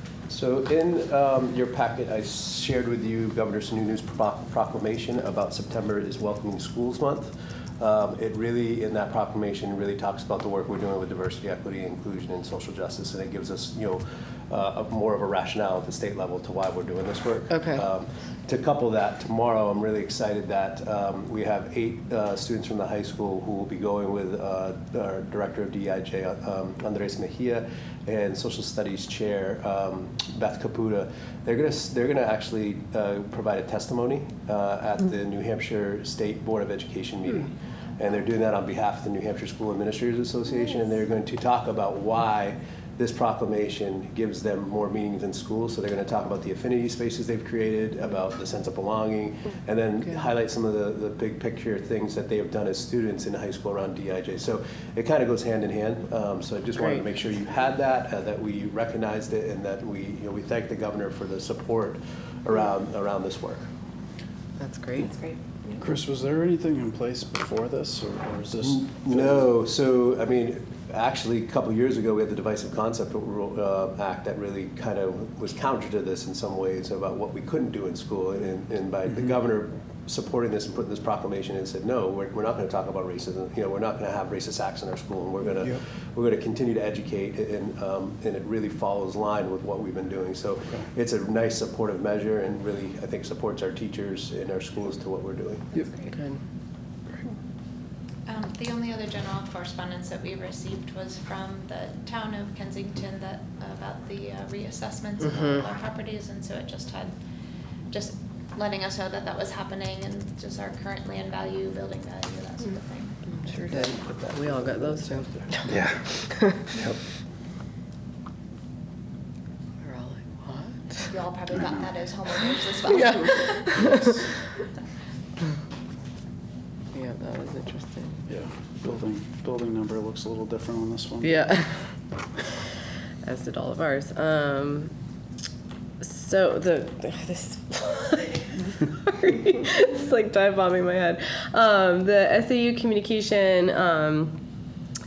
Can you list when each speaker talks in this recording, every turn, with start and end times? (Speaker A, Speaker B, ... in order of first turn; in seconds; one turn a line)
Speaker A: 0.3-63.7
Speaker B: 17.5-17.9
Speaker B: 56.8-57.0
Speaker B: 64.6-65.2
Speaker C: 65.8-69.5
Speaker A: 68.6-95.7
Speaker B: 96.1-96.4
Speaker D: 98.3-107.1
Speaker B: 105.2-105.6
Speaker D: 107.9-113.2
Speaker B: 113.3-115.8
Speaker A: 113.5-115.6
Speaker C: 115.7-116.1
Speaker B: 116.3-116.6
Speaker B: 119.8-121.1
Speaker D: 121.0-124.1
Speaker B: 122.9-124.1
Speaker B: 126.9-128.2
Speaker C: 128.3-131.5
Speaker B: 131.2-131.8
Speaker B: 133.2-134.9
Speaker B: 136.0-144.4